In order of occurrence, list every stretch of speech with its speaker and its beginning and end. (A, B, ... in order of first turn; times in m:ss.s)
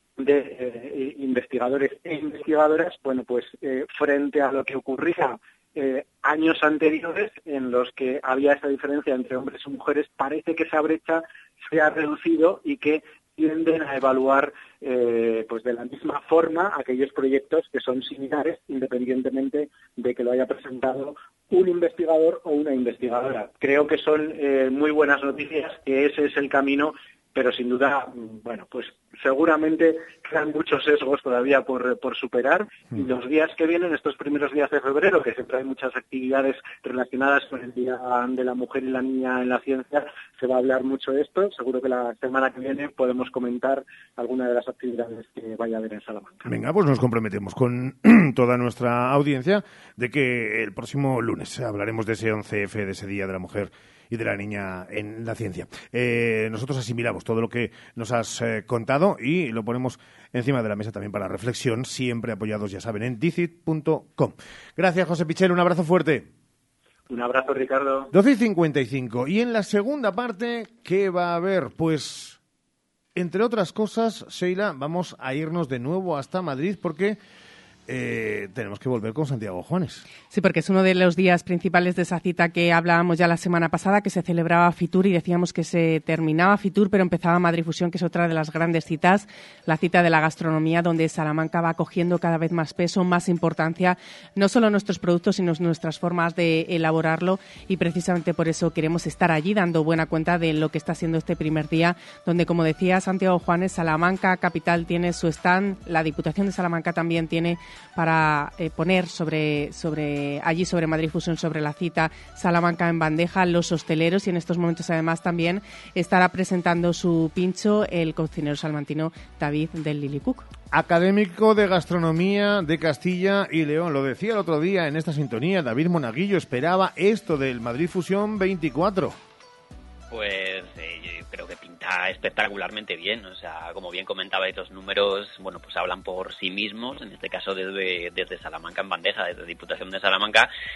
0:00.2-0:46.5 A
0:46.4-1:06.3 B
1:07.1-1:08.1 A
1:08.1-1:12.4 B
1:13.2-1:17.2 B
1:17.9-1:20.1 B
1:20.3-2:00.5 C
2:00.7-2:09.2 B
2:10.1-2:20.5 D